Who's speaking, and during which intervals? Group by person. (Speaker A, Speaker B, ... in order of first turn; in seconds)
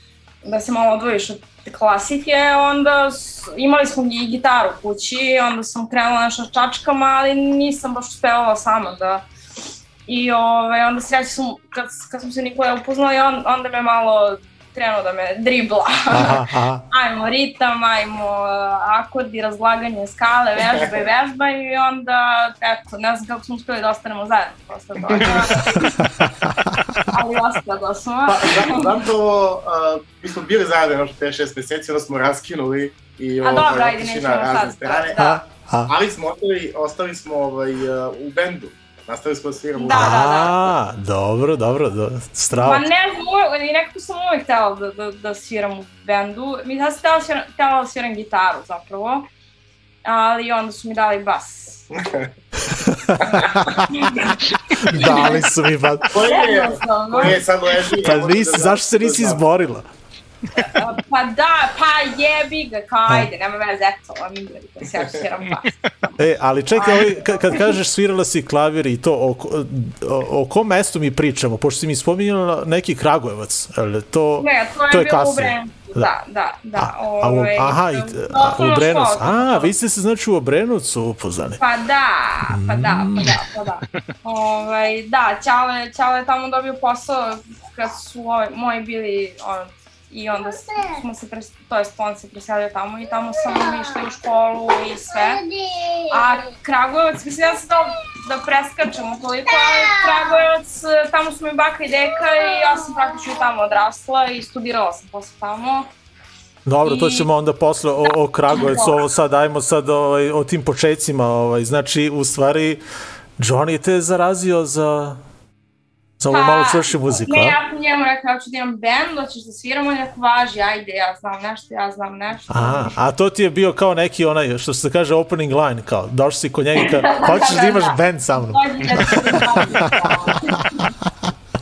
Speaker A: 0.4-9.2, 10.1-25.9, 27.1-28.9, 33.4-35.4, 39.8-40.7, 42.5-49.3, 50.0-51.8, 53.9-54.4, 54.9-55.4, 56.2-57.4, 60.6-65.7, 66.7-67.7, 74.4-79.7, 81.6-95.5, 96.1-105.9, 106.8-107.3, 108.0-109.0, 116.3-122.9, 126.8-130.8
Speaker B: 16.1-16.8, 26.0-27.0, 35.1-35.9, 39.9-42.9, 52.8-53.9, 54.8-56.1, 58.0-59.9, 66.2-76.1, 76.8-81.6, 82.5-83.4, 106.7-112.8, 113.4-115.2, 116.2-117.6, 122.5-131.2
Speaker C: 25.0-25.9, 28.2-40.1, 52.0-52.3, 56.1-59.4